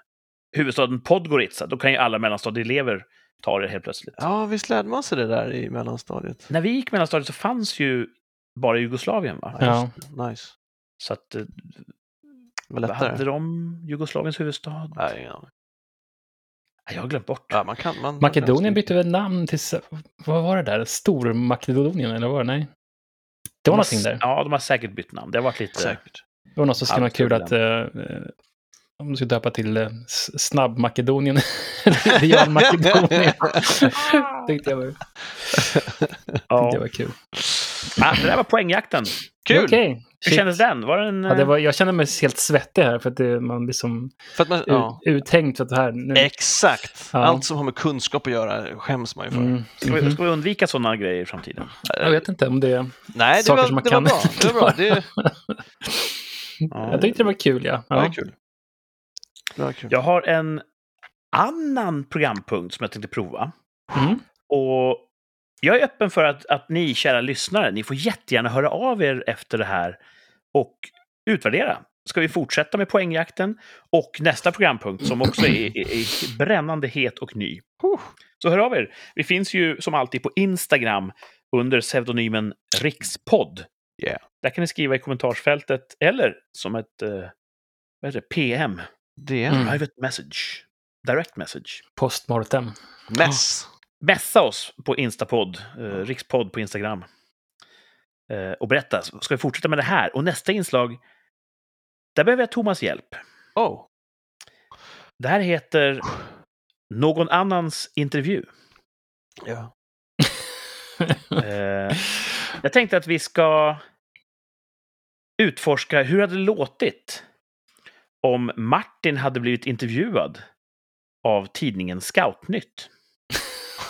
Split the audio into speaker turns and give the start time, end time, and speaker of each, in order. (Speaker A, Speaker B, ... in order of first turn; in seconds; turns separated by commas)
Speaker A: 0.5-4.2, Speaker B: 4.2-6.5, Speaker A: 6.5-9.6, Speaker B: 9.6-10.5, Speaker C: 9.6-9.9, Speaker A: 11.0-11.8, Speaker B: 12.7-13.2, Speaker A: 12.8-15.0, Speaker B: 15.0-15.5, Speaker A: 16.9-17.6, Speaker B: 17.5-18.9, Speaker C: 18.2-22.7, Speaker C: 23.6-24.2, Speaker A: 23.7-26.0, Speaker B: 25.8-26.2, Speaker C: 26.6-28.3, Speaker A: 26.9-27.5, Speaker C: 29.0-35.8, Speaker B: 32.2-33.9, Speaker B: 35.6-36.1, Speaker A: 36.5-36.8, Speaker C: 36.6-37.2, Speaker A: 38.0-39.2, Speaker B: 39.5-39.8, Speaker C: 39.5-40.6, Speaker A: 40.2-41.5, Speaker C: 41.3-46.3, Speaker B: 44.4-45.0, Speaker B: 46.1-49.5, Speaker C: 47.1-47.5, Speaker C: 49.3-50.2, Speaker A: 49.8-51.7, Speaker B: 51.9-52.2, Speaker C: 51.9-55.3, Speaker B: 53.1-55.1, Speaker C: 56.7-58.2, Speaker A: 56.7-57.1, Speaker B: 56.9-57.3, Speaker B: 57.9-58.3, Speaker B: 59.5-59.9, Speaker A: 59.9-60.6, Speaker A: 61.3-63.5, Speaker C: 63.9-64.2, Speaker A: 64.5-65.1, Speaker A: 65.6-70.0, Speaker A: 70.5-77.6, Speaker B: 77.8-78.1, Speaker A: 78.4-83.7, Speaker A: 84.4-87.3, Speaker A: 88.0-88.8, Speaker B: 89.2-89.8, Speaker A: 89.5-91.8, Speaker C: 89.5-89.8, Speaker C: 92.0-92.7, Speaker B: 93.1-93.7, Speaker A: 94.0-97.1, Speaker A: 98.3-101.0, Speaker A: 102.2-103.2, Speaker B: 103.6-103.9, Speaker A: 105.2-106.1, Speaker A: 106.9-108.5, Speaker B: 109.4-109.7, Speaker A: 111.4-112.1, Speaker A: 112.6-113.8, Speaker A: 115.4-117.2, Speaker A: 118.2-120.4, Speaker A: 121.2-122.9